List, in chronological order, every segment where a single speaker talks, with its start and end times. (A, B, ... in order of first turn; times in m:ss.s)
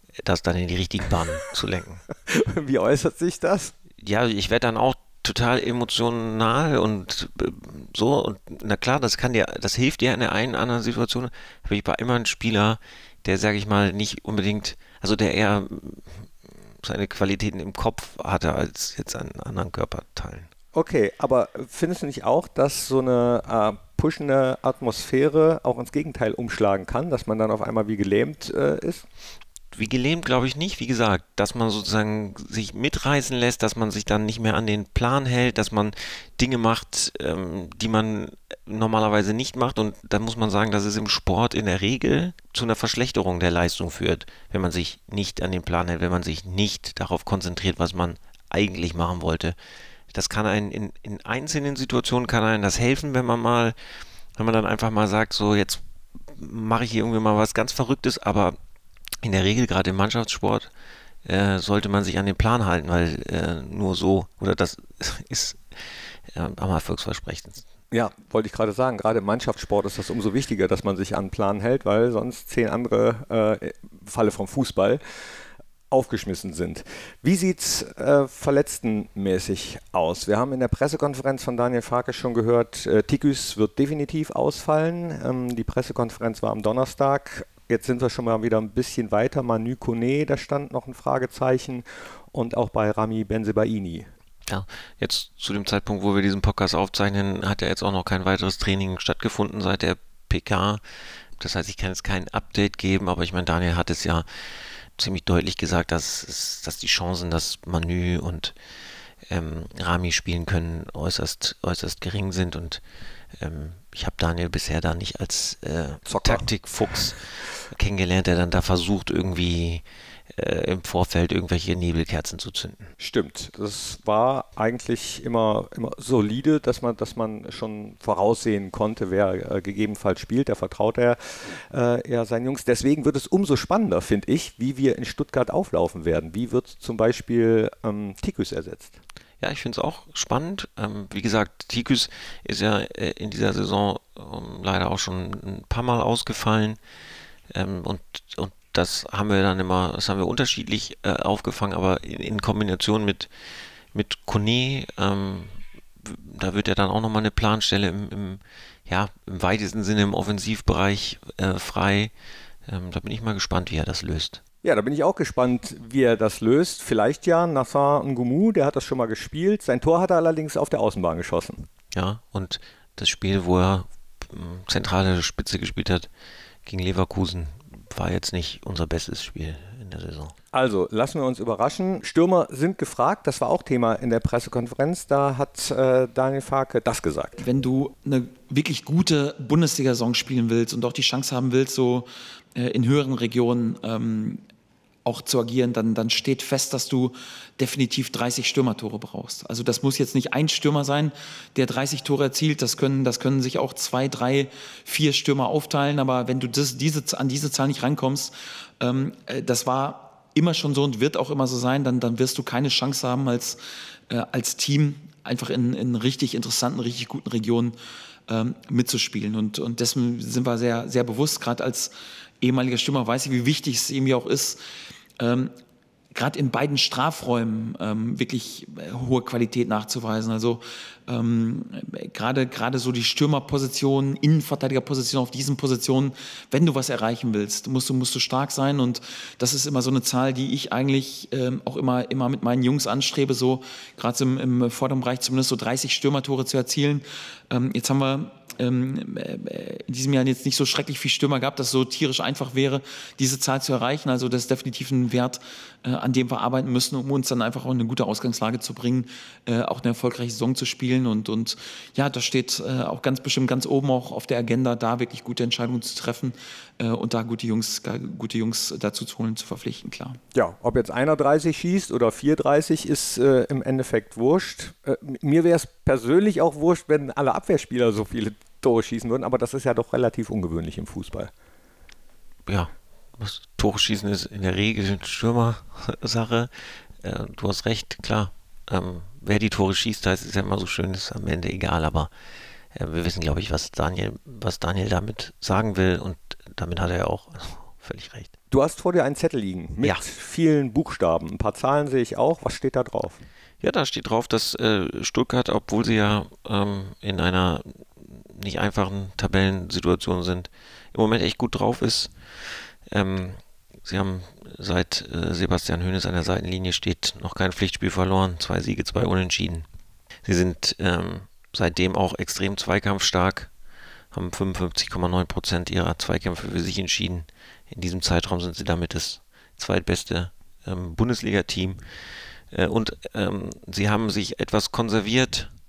0:00.2-0:02.0 A
0:02.3-0:03.7 B
0:04.0-0:20.5 A
0:20.7-0:29.1 B
0:29.7-0:49.6 A
0:50.1-0:53.8 A
0:54.4-0:58.6 A
0:59.2-1:00.7 A
1:01.2-1:07.6 A
1:07.9-1:15.0 B
1:15.9-1:34.1 B
1:34.5-1:40.8 A
1:41.4-1:44.3 A
1:45.0-1:48.6 A
1:49.3-1:52.8 A
1:53.4-2:02.9 A
1:56.1-1:56.5 B
2:03.0-2:11.2 B
2:11.7-2:19.0 B
2:19.4-2:26.8 A
2:27.5-2:33.3 A
2:33.9-2:42.1 A
2:42.7-2:44.4 A
2:44.6-2:51.7 B
2:51.9-2:56.1 A
2:56.7-3:00.3 A
3:00.5-3:07.4 B
3:07.4-3:14.4 C
3:15.0-3:37.8 C
3:38.3-3:44.6 C
3:45.2-3:45.5 C
3:46.1-4:30.2 C
4:30.3-4:41.3 B
4:42.5-4:52.1 A
4:52.8-4:58.3 A
4:58.5-5:03.2 B
5:03.6-5:19.7 A
5:20.2-5:23.5 A
5:24.1-5:31.8 A
5:32.5-5:35.5 A